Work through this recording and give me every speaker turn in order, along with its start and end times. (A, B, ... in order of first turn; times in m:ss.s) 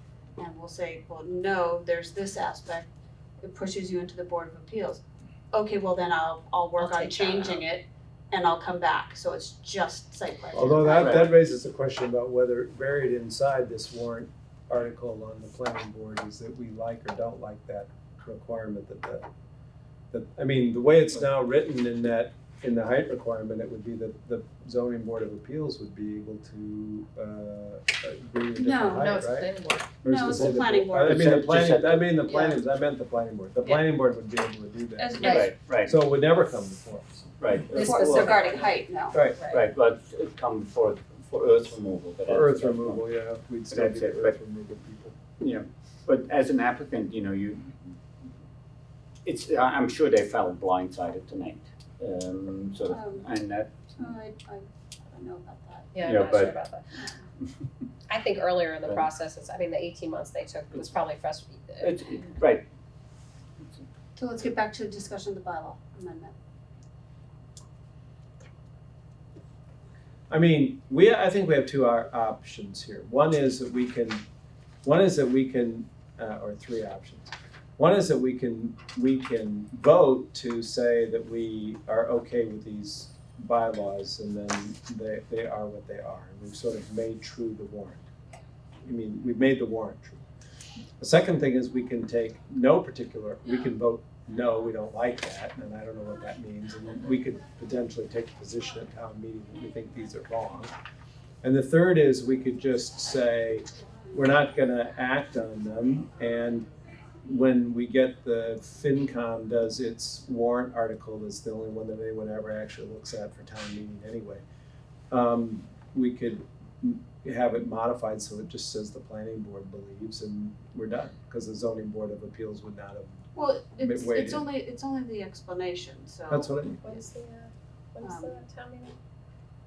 0:00.4-0:02.9 A
0:03.4-0:11.3 A
0:06.8-0:07.6 B
0:10.5-0:19.3 C
0:20.1-0:29.5 C
0:28.6-0:29.2 A
0:28.9-0:30.4 B
0:30.0-0:37.4 C
0:30.0-0:31.4 A
0:31.0-0:32.1 D
0:32.2-0:32.6 B
0:35.0-0:35.5 A
0:35.2-0:35.5 B
0:35.2-0:35.9 D
0:37.4-0:38.4 D
0:37.7-0:38.8 B
0:37.7-0:39.2 A
0:39.1-0:39.4 C
0:39.4-0:39.6 B
0:39.5-0:43.0 D
0:42.2-0:45.2 C
0:43.7-0:44.4 D
0:45.4-0:47.9 D
0:49.2-0:54.1 D
0:52.9-0:53.3 A
0:54.0-0:55.9 A
0:55.9-0:56.8 B
0:56.0-0:56.5 D
0:58.1-1:02.0 B
1:01.8-1:02.6 D
1:04.2-1:06.3 A
1:10.3-1:14.2 C
1:14.8-1:28.0 C
1:28.8-1:30.2 C
1:31.0-1:40.7 C
1:41.4-1:46.6 C
1:47.2-1:54.4 C
1:55.1-2:03.2 C
2:03.3-2:06.6 A
2:03.8-2:04.4 C
2:06.3-2:06.8 C
2:06.8-2:09.0 B
2:08.0-2:08.4 A